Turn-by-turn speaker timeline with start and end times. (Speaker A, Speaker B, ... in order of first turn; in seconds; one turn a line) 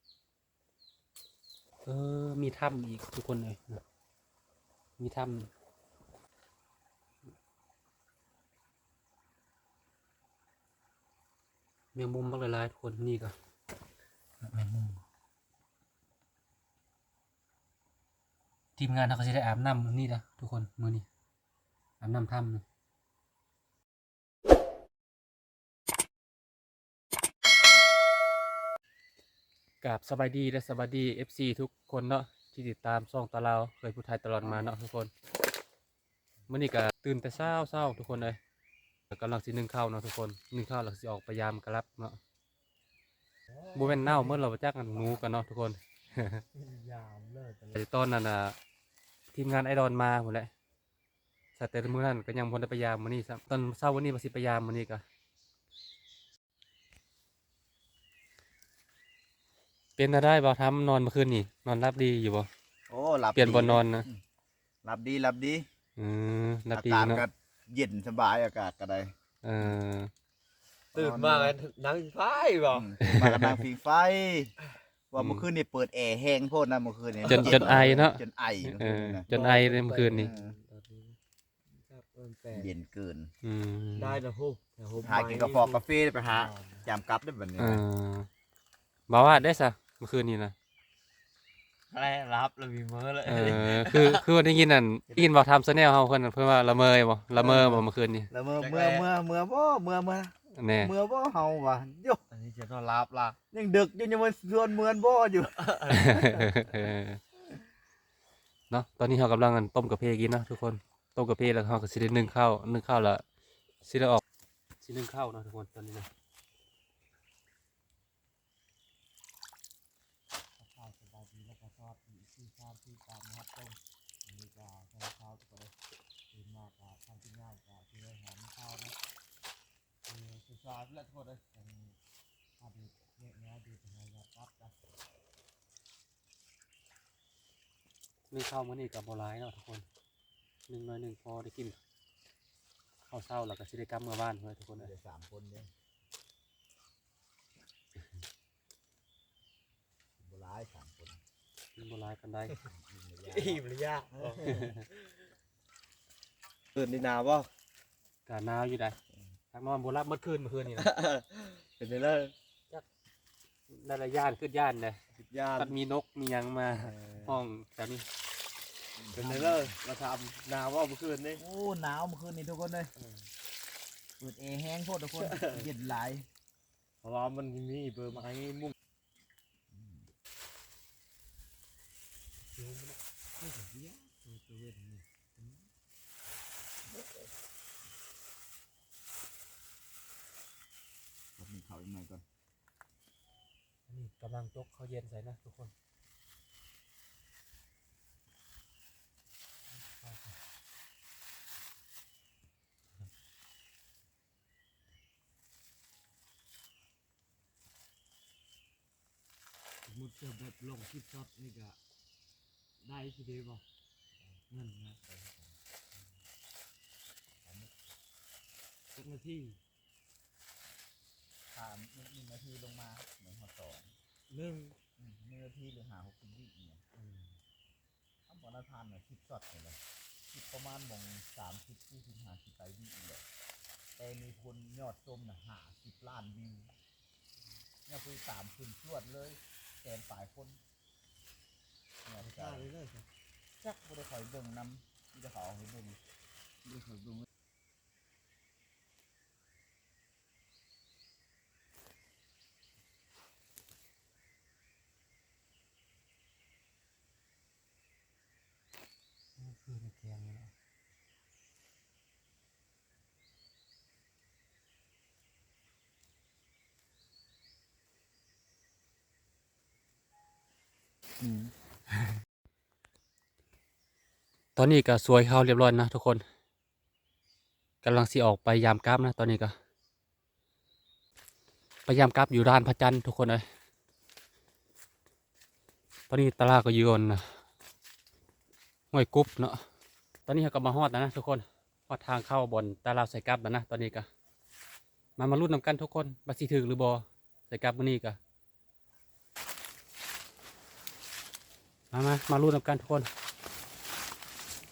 Speaker A: 1.9-3.8
Speaker A: 5.0-5.5
Speaker A: 11.9-13.3
Speaker A: 14.4-15.0
Speaker A: 18.8-21.1
Speaker A: 22.0-22.6
Speaker A: 29.8-35.1
Speaker A: 36.5-38.4
Speaker A: 39.1-42.2
Speaker B: 43.5-44.4
Speaker A: 43.7-46.4
Speaker B: 44.9-45.3
Speaker B: 46.5-47.8
Speaker A: 47.7-48.6
Speaker A: 49.3-50.5
Speaker A: 51.6-55.0
Speaker A: 60.0-62.5
Speaker C: 62.9-64.2
Speaker A: 63.4-64.1
Speaker C: 64.8-65.7
Speaker A: 66.0-67.3
Speaker C: 66.7-69.8
Speaker A: 69.4-70.1
Speaker C: 70.9-71.5
Speaker B: 70.9-72.9
Speaker C: 72.7-74.5
Speaker A: 73.0-73.6
Speaker C: 75.1-79.3
Speaker A: 75.2-75.5
Speaker A: 77.3-80.3
Speaker B: 77.3-77.9
Speaker B: 79.3-81.2
Speaker C: 80.1-80.6
Speaker B: 81.8-82.7
Speaker C: 82.5-83.3
Speaker A: 83.4-84.2
Speaker B: 84.0-86.9
Speaker C: 85.0-87.8
Speaker A: 87.6-88.3
Speaker A: 89.1-90.5
Speaker B: 91.9-94.3
Speaker A: 93.2-98.3
Speaker C: 97.3-102.2
Speaker B: 98.6-99.1
Speaker A: 100.5-100.9
Speaker B: 102.3-103.4
Speaker C: 103.5-106.1
Speaker B: 105.6-106.6
Speaker A: 105.9-107.2
Speaker A: 108.7-113.2
Speaker A: 113.8-114.2
Speaker A: 114.8-116.1
Speaker B: 120.6-125.7
Speaker B: 126.3-129.0
Speaker B: 130.1-132.0
Speaker B: 132.6-134.8
Speaker A: 138.3-139.8
Speaker A: 140.7-141.8
Speaker A: 143.1-144.9
Speaker C: 144.7-145.7
Speaker C: 150.2-151.2
Speaker A: 151.8-152.6
Speaker C: 152.6-153.6
Speaker B: 153.2-155.1
Speaker C: 154.2-154.6
Speaker A: 154.5-154.8
Speaker B: 156.8-157.5
Speaker A: 158.3-159.0
Speaker A: 159.5-160.9
Speaker B: 160.8-162.3
Speaker A: 163.7-165.0
Speaker B: 165.2-165.8
Speaker A: 165.6-168.1
Speaker C: 169.0-169.8
Speaker B: 169.1-171.4
Speaker C: 171.4-172.9
Speaker B: 173.0-173.3
Speaker C: 174.2-176.3
Speaker B: 175.2-175.7
Speaker B: 177.0-178.7
Speaker C: 179.7-180.1
Speaker A: 182.6-183.0
Speaker B: 183.4-185.6
Speaker C: 191.4-192.2
Speaker A: 193.9-195.7
Speaker A: 199.8-200.3
Speaker B: 209.9-211.8
Speaker B: 212.8-213.6
Speaker B: 214.5-215.0
Speaker C: 215.0-215.6
Speaker C: 217.4-217.8
Speaker B: 219.0-219.6
Speaker C: 221.5-223.9
Speaker B: 224.3-224.8
Speaker C: 225.0-226.8
Speaker B: 226.9-227.4
Speaker C: 228.3-229.8
Speaker C: 230.3-233.2
Speaker C: 234.0-236.8
Speaker C: 237.9-240.6
Speaker C: 242.1-242.7
Speaker B: 242.2-243.1
Speaker C: 243.6-246.0
Speaker A: 259.4-260.5
Speaker C: 271.2-271.5
Speaker A: 274.6-276.2
Speaker A: 277.8-279.6
Speaker A: 281.9-283.4
Speaker A: 286.1-287.4
Speaker A: 288.9-289.6
Speaker A: 290.3-294.1
Speaker A: 295.2-298.2
Speaker A: 301.9-303.1